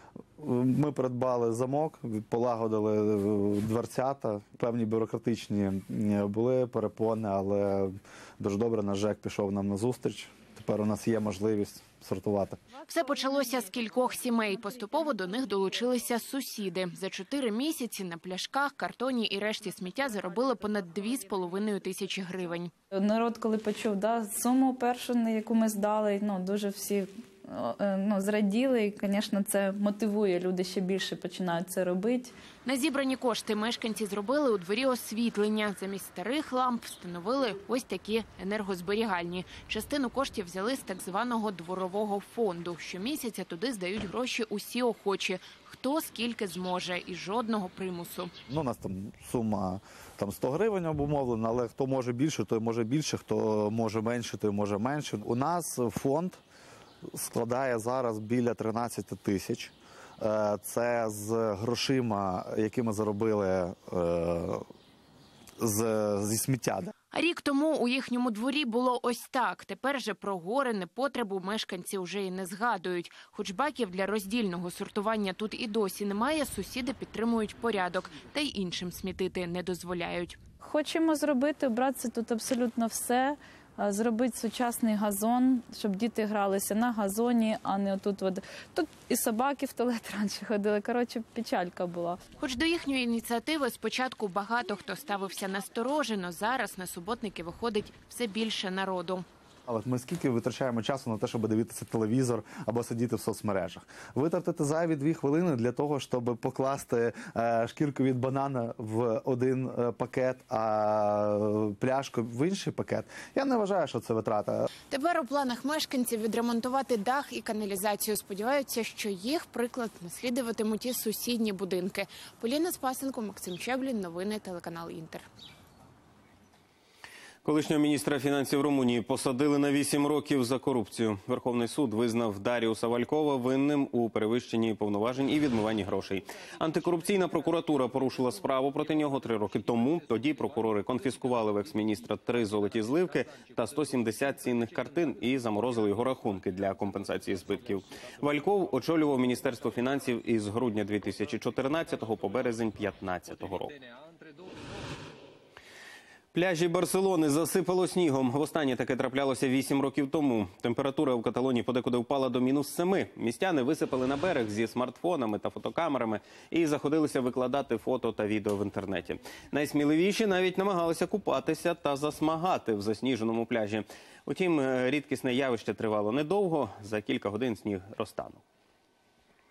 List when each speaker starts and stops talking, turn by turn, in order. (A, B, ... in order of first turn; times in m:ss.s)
0:00.4-0:12.6 A
0:12.9-0:22.7 B
0:22.9-0:32.3 C
0:32.6-0:48.3 B
0:48.5-0:56.4 A
0:57.1-1:04.6 A
1:05.6-1:06.9 A
1:07.1-1:20.4 B
1:20.6-1:32.2 C
1:32.4-1:39.2 B
1:39.7-1:54.7 A
1:54.9-2:05.2 B
2:07.4-2:33.8 D
2:36.3-2:58.4 D